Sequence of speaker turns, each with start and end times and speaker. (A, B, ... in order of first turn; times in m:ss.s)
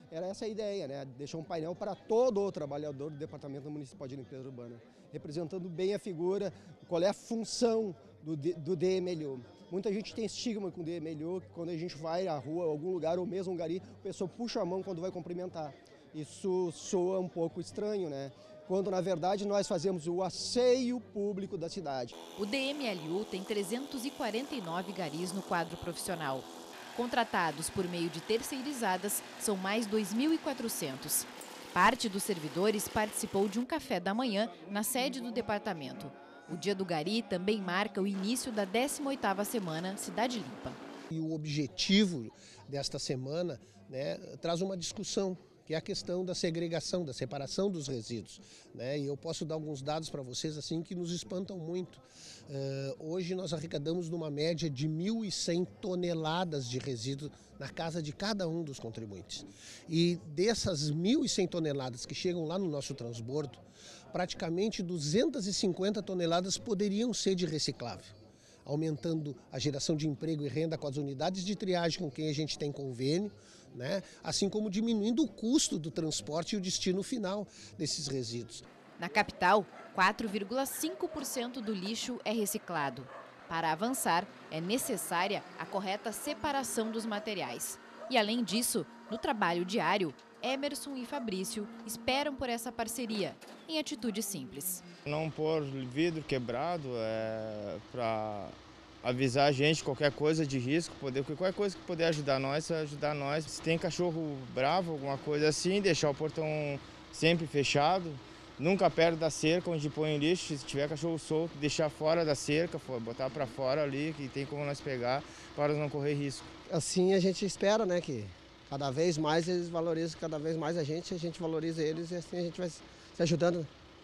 0:00.1-0:22.2 A
0:22.4-0:40.8 B
0:41.1-1:08.1 C
1:08.6-1:18.6 C
1:19.0-1:34.8 B
1:35.1-1:56.5 D
1:56.7-2:03.7 A